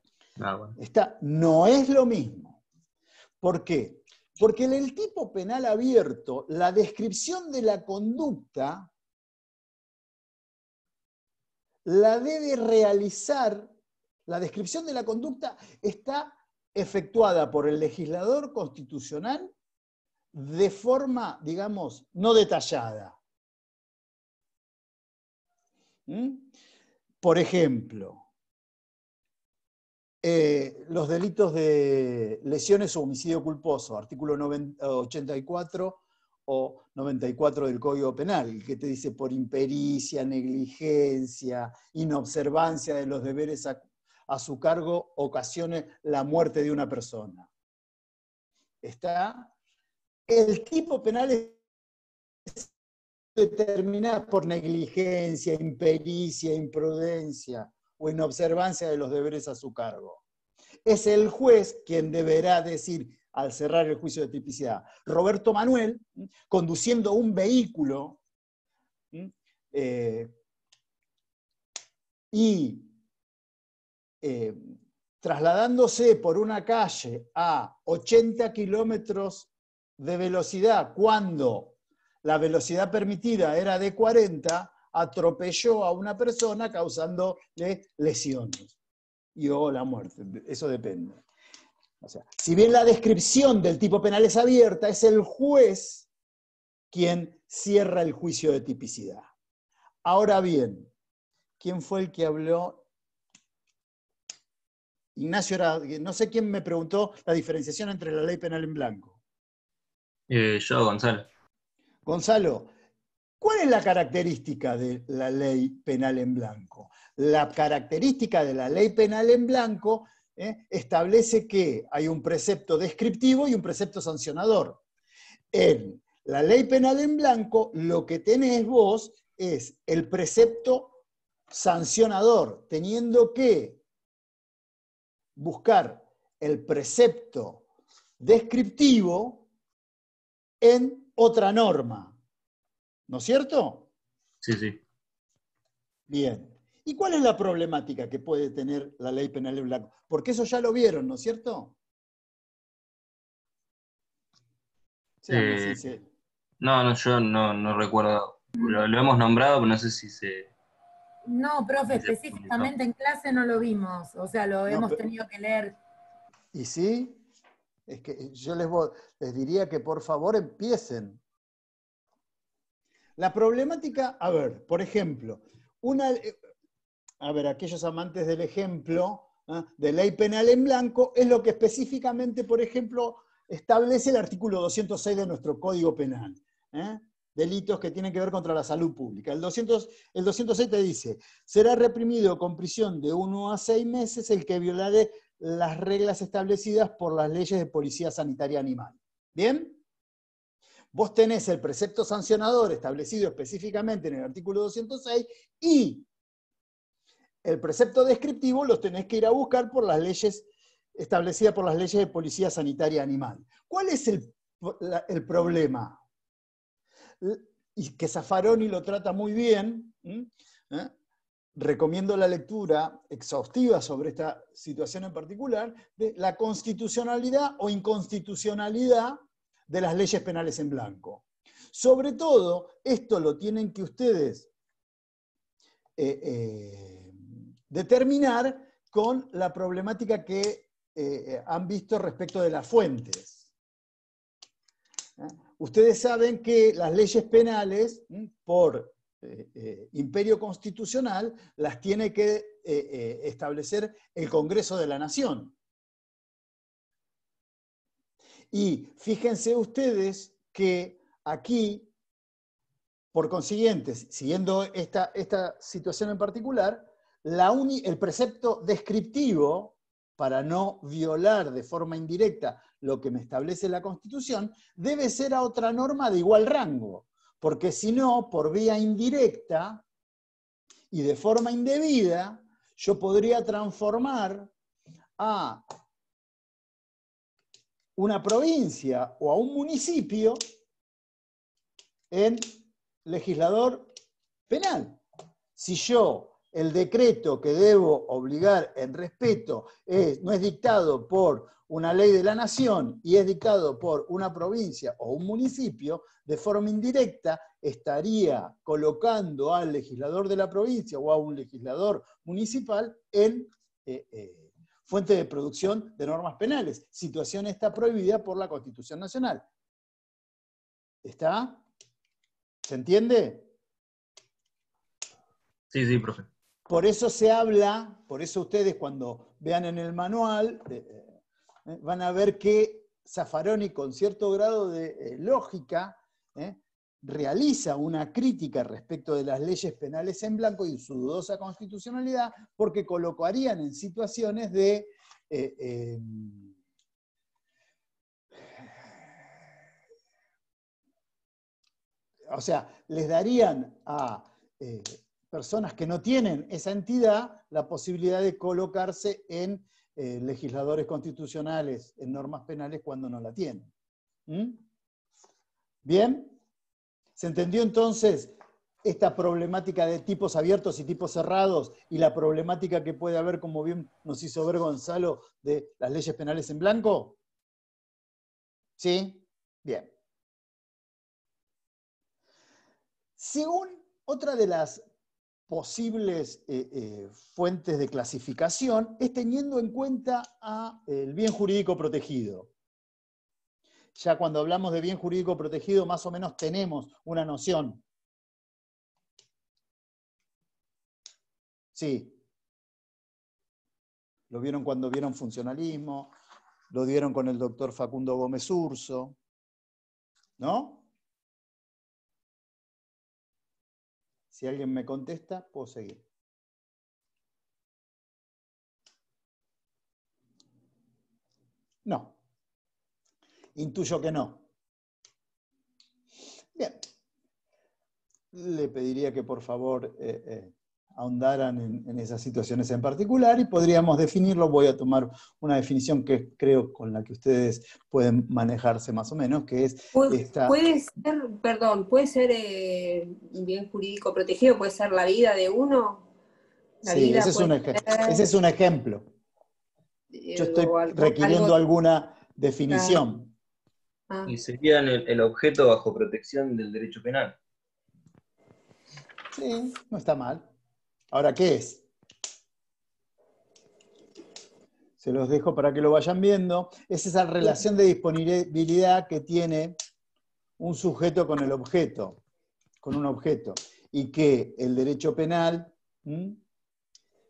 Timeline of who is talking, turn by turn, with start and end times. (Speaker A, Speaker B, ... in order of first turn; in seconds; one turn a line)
Speaker A: 0.4-0.8
Speaker B: 0.8-2.6
Speaker B: 3.4-8.9
Speaker B: 11.8-13.7
Speaker B: 14.3-19.5
Speaker B: 20.3-23.2
Speaker B: 26.1-26.5
Speaker B: 27.2-28.2
Speaker B: 30.2-47.5
Speaker B: 48.8-49.5
Speaker B: 50.3-51.6
Speaker B: 53.4-60.2
Speaker B: 60.9-68.2
Speaker B: 69.1-70.3
Speaker B: 72.3-72.9
Speaker B: 74.2-88.8
Speaker B: 89.3-91.2
Speaker B: 92.0-96.1
Speaker B: 96.9-99.3
Speaker B: 100.0-100.9
Speaker B: 101.6-102.8
Speaker B: 105.2-109.2
Speaker A: 110.3-111.3
Speaker B: 112.0-112.7
Speaker B: 113.4-124.8
Speaker B: 125.5-131.0
Speaker B: 131.5-133.8
Speaker B: 135.4-137.6
Speaker B: 138.2-139.5
Speaker B: 140.6-142.2
Speaker B: 143.1-143.9
Speaker A: 144.4-144.8
Speaker B: 146.1-151.8
Speaker B: 155.2-156.0
Speaker A: 155.3-155.8
Speaker A: 156.6-160.5
Speaker C: 161.3-165.8
Speaker A: 161.9-162.7
Speaker B: 164.7-165.0
Speaker B: 166.5-167.2
Speaker B: 167.9-171.2
Speaker B: 173.2-176.4
Speaker B: 177.2-199.8
Speaker B: 200.9-206.1
Speaker B: 207.4-216.0
Speaker B: 217.2-220.9
Speaker B: 221.6-234.5
Speaker B: 236.0-237.2
Speaker B: 237.7-243.4
Speaker B: 245.2-255.6
Speaker B: 258.5-261.9
Speaker B: 263.1-279.8
Speaker B: 280.9-284.5
Speaker B: 285.2-285.6
Speaker B: 288.0-290.4
Speaker B: 292.1-293.9
Speaker B: 294.5-295.0
Speaker B: 295.6-319.5
Speaker B: 321.0-321.6
Speaker B: 322.6-323.5
Speaker A: 325.7-326.3
Speaker B: 326.7-331.1
Speaker B: 331.7-346.5
Speaker B: 352.3-363.7
Speaker B: 364.3-364.6
Speaker B: 365.8-366.4
Speaker B: 367.2-377.2
Speaker B: 378.8-379.9
Speaker B: 383.2-384.9
Speaker B: 385.5-392.5
Speaker B: 394.0-397.8
Speaker B: 401.7-402.2
Speaker B: 404.3-406.1
Speaker B: 406.7-409.2
Speaker B: 410.4-410.9
Speaker B: 414.3-416.0
Speaker B: 421.9-422.2
Speaker B: 423.6-424.4
Speaker B: 426.6-426.8
Speaker B: 428.3-440.6
Speaker D: 439.9-446.1
Speaker D: 446.8-448.2
Speaker B: 446.8-449.1
Speaker D: 450.1-451.6
Speaker B: 450.4-453.3
Speaker D: 452.7-453.0
Speaker A: 454.3-457.4
Speaker B: 459.3-460.5
Speaker B: 461.1-461.8
Speaker B: 465.0-469.8
Speaker B: 470.6-472.2
Speaker B: 472.8-476.4